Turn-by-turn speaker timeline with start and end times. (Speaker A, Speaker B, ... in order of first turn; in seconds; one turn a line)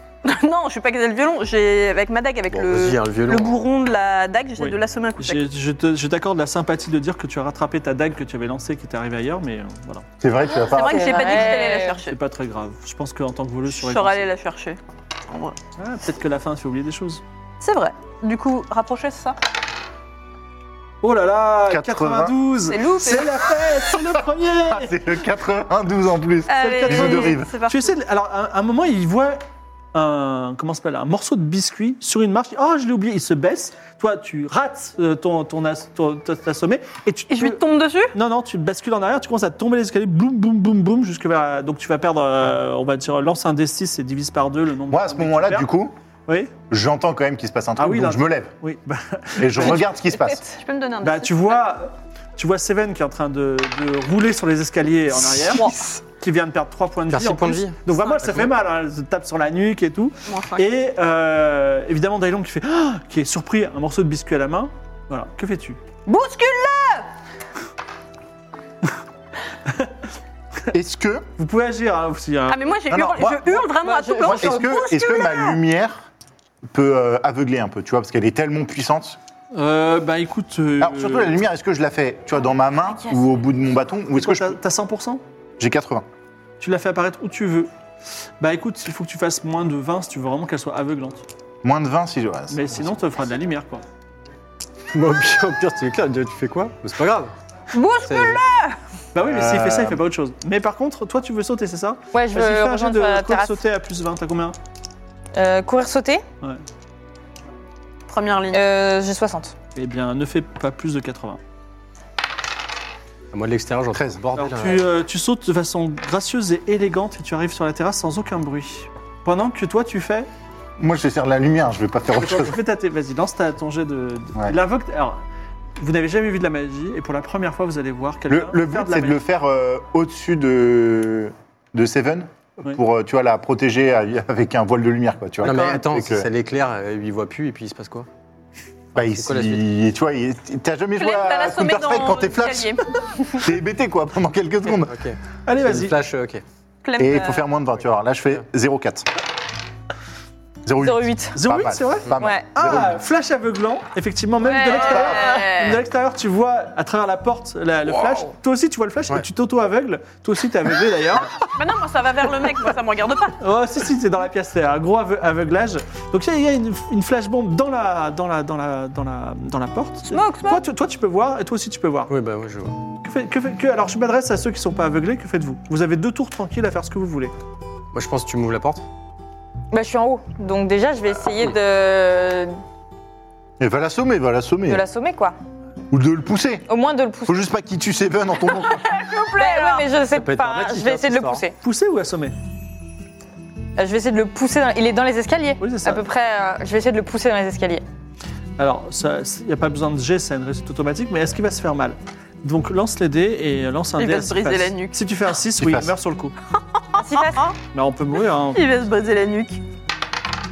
Speaker A: 0.2-5.5
Speaker B: 2.5-3.6
Speaker C: 4.6-10.1
Speaker D: 10.2-11.2
Speaker A: 10.5-12.2
Speaker E: 10.7-12.0
Speaker C: 12.0-14.3
Speaker A: 13.7-15.6
Speaker C: 15.8-17.2
Speaker A: 17.6-19.4
Speaker C: 21.0-25.0
Speaker D: 21.7-22.4
Speaker A: 22.7-23.5
Speaker D: 24.6-27.5
Speaker A: 26.5-27.9
Speaker C: 26.6-29.4
Speaker C: 29.9-45.7
Speaker A: 37.3-38.1
Speaker D: 44.9-45.9
Speaker C: 46.3-46.5
Speaker D: 46.7-48.5
Speaker C: 47.8-49.9
Speaker D: 49.4-50.4
Speaker A: 50.2-51.7
Speaker C: 51.0-65.8
Speaker B: 57.1-58.5
Speaker A: 58.0-58.3
Speaker A: 60.2-60.8
Speaker A: 66.0-67.1
Speaker D: 70.7-71.3
Speaker C: 71.4-72.7
Speaker A: 72.5-75.6
Speaker D: 72.9-73.6
Speaker E: 73.8-74.7
Speaker D: 74.2-76.1
Speaker D: 76.7-79.2
Speaker C: 79.5-81.4
Speaker D: 80.8-84.6
Speaker C: 84.1-85.2
Speaker D: 85.6-86.0
Speaker C: 86.6-87.7
Speaker C: 88.4-91.2
Speaker D: 91.6-93.0
Speaker C: 92.5-93.8
Speaker B: 94.9-97.3
Speaker A: 97.7-98.7
Speaker E: 97.8-98.3
Speaker B: 98.0-98.4
Speaker C: 99.1-104.5
Speaker D: 99.2-100.0
Speaker E: 102.1-103.6
Speaker E: 105.3-106.2
Speaker A: 108.1-108.6
Speaker E: 108.5-109.5
Speaker C: 109.8-111.4
Speaker B: 113.3-114.9
Speaker D: 113.9-114.2
Speaker C: 114.3-120.3
Speaker D: 120.8-122.6
Speaker C: 122.2-125.2
Speaker C: 125.8-129.2
Speaker D: 128.3-136.3
Speaker B: 135.4-138.1
Speaker B: 138.9-139.6
Speaker D: 138.9-145.0
Speaker A: 141.0-143.4
Speaker B: 144.7-146.4
Speaker C: 145.4-146.0
Speaker A: 146.8-147.5
Speaker D: 147.0-149.1
Speaker D: 150.6-153.0
Speaker E: 150.8-151.4
Speaker C: 151.3-161.3
Speaker E: 152.2-152.4
Speaker A: 154.4-155.8
Speaker A: 161.4-163.4
Speaker C: 163.3-172.1
Speaker A: 170.0-170.6
Speaker B: 172.1-172.8
Speaker C: 173.0-177.3
Speaker B: 177.9-178.8
Speaker E: 179.7-182.6
Speaker D: 183.6-184.8
Speaker E: 184.7-185.3
Speaker D: 185.9-186.7
Speaker E: 186.7-187.4
Speaker D: 187.2-189.0
Speaker A: 188.6-189.9
Speaker E: 189.2-191.6
Speaker B: 190.1-191.4
Speaker C: 191.6-192.3
Speaker E: 193.8-197.8
Speaker C: 195.6-196.1
Speaker C: 198.6-206.3
Speaker A: 204.0-205.0
Speaker D: 205.6-205.9
Speaker A: 206.9-207.5
Speaker E: 206.9-207.5
Speaker C: 207.7-208.6
Speaker A: 208.5-209.6